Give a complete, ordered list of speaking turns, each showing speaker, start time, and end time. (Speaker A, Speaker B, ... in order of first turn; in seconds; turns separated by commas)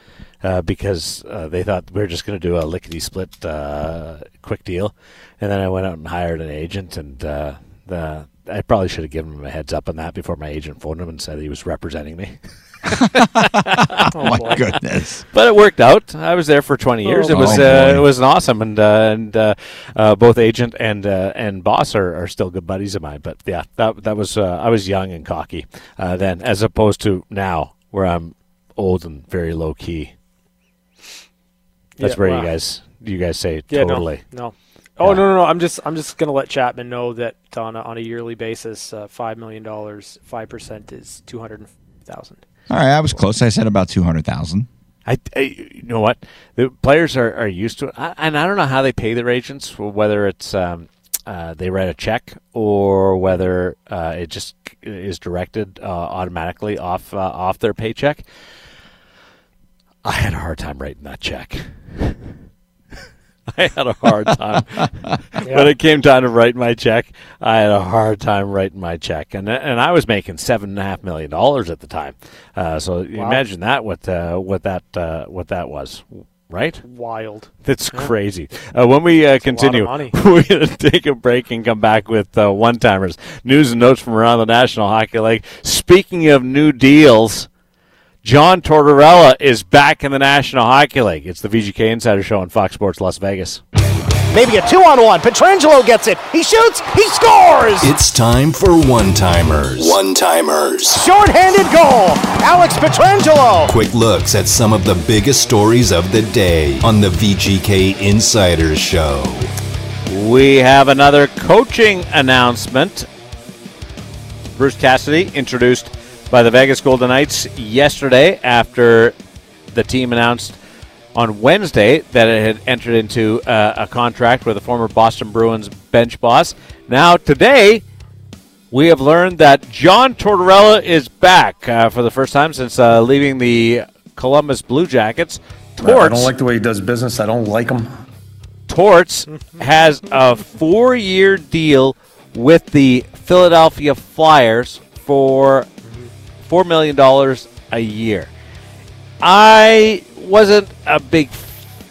Speaker A: 0.4-12.3, Speaker A: 12.9-14.6, Speaker B: 13.0-15.2, Speaker C: 14.1-14.6, Speaker A: 15.3-30.1, Speaker C: 17.0-17.5, Speaker B: 17.2-18.1, Speaker C: 32.0-32.5, Speaker A: 32.0-34.2, Speaker C: 33.7-42.4, Speaker B: 42.7-44.7, Speaker A: 45.0-58.2, Speaker A: 60.0-62.3, Speaker A: 63.5-76.8, Speaker C: 65.4-65.7, Speaker C: 73.1-73.4, Speaker C: 76.8-78.1, Speaker A: 77.6-87.5, Speaker C: 79.4-80.1, Speaker A: 88.2-93.6, Speaker D: 94.3-97.9, Speaker E: 97.8-101.0, Speaker D: 100.9-103.7, Speaker E: 103.7-109.5, Speaker A: 110.1-113.1, Speaker A: 114.5-119.1, Speaker A: 119.7-120.6, Speaker A: 121.1-127.8, Speaker A: 128.7-136.3, Speaker F: 135.8-137.9, Speaker A: 138.7-145.7, Speaker A: 146.4-148.3, Speaker A: 149.2-151.7